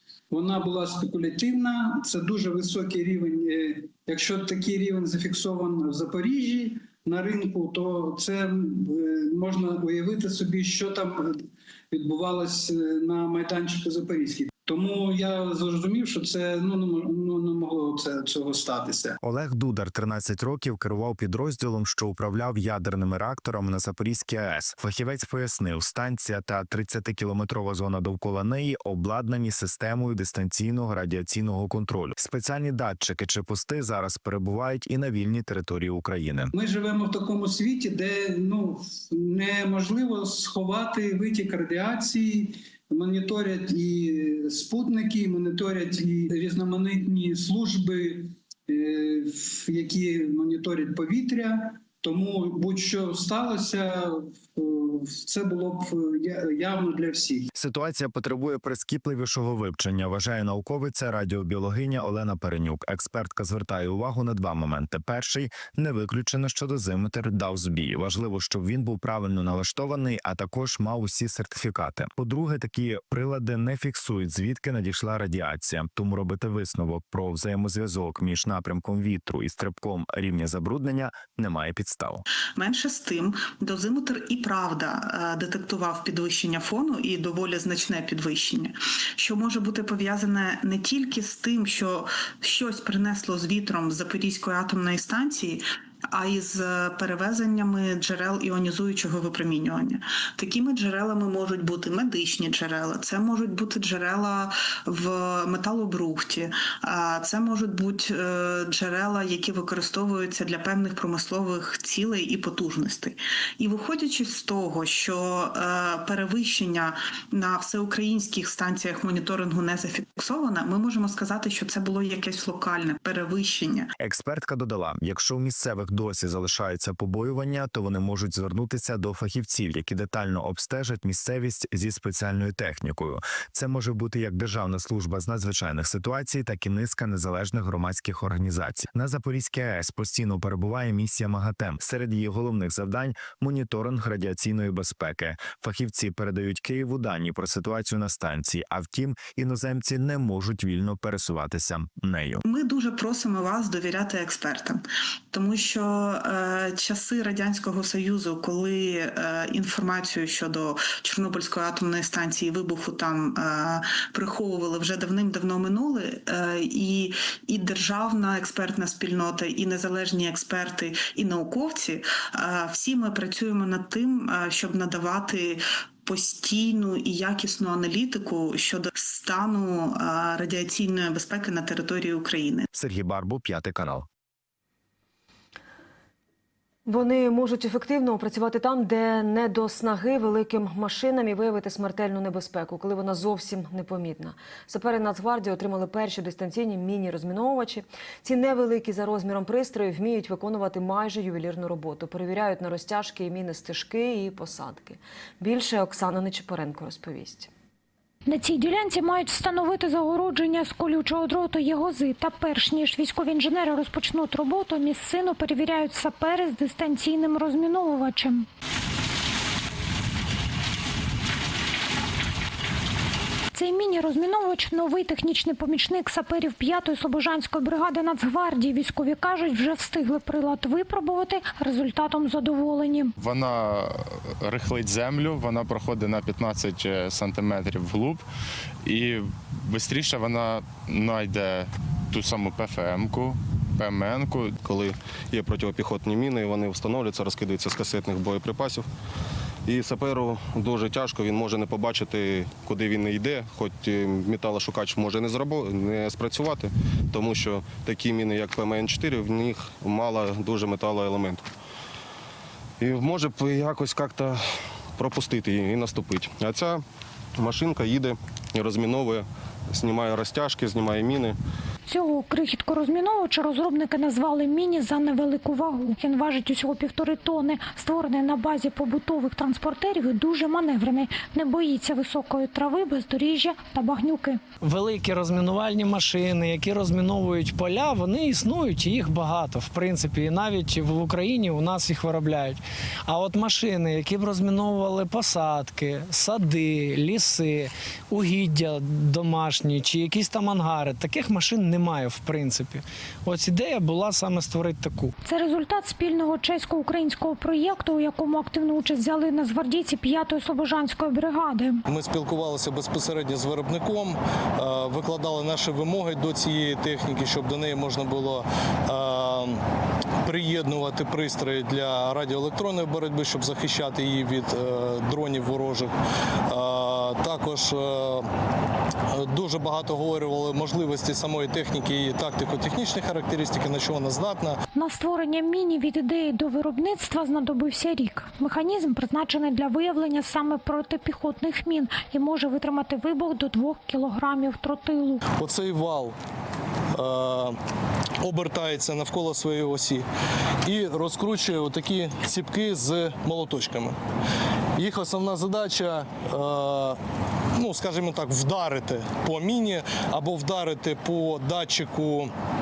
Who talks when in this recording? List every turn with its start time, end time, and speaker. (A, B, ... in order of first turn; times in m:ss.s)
0:00.3-0:19.2 A
0:19.2-0:36.5 B
0:36.5-0:57.5 A
0:57.5-1:22.2 B
1:22.6-2:03.9 C
2:04.0-2:32.4 B
2:32.4-3:02.7 C
3:02.7-3:04.1 B
3:06.8-3:27.5 D
3:28.3-3:38.4 E
3:43.5-3:53.1 E
3:53.2-3:58.2 F
3:58.8-4:04.6 F
4:04.6-4:08.8 G
4:09.7-4:21.4 G
4:22.8-4:24.4 G
4:24.9-4:26.8 G
4:27.4-4:31.4 G
4:31.9-4:44.4 E
4:44.6-5:05.1 H
5:05.2-5:11.8 E
5:11.9-5:19.6 I
5:20.2-5:25.9 I
5:26.5-5:28.3 I
5:29.1-5:34.6 I
5:34.7-5:45.2 E
5:45.3-5:46.1 I
5:46.9-5:47.6 I
5:48.2-5:50.0 I
5:50.6-5:54.0 I
5:54.8-5:57.0 I
5:57.6-6:02.3 I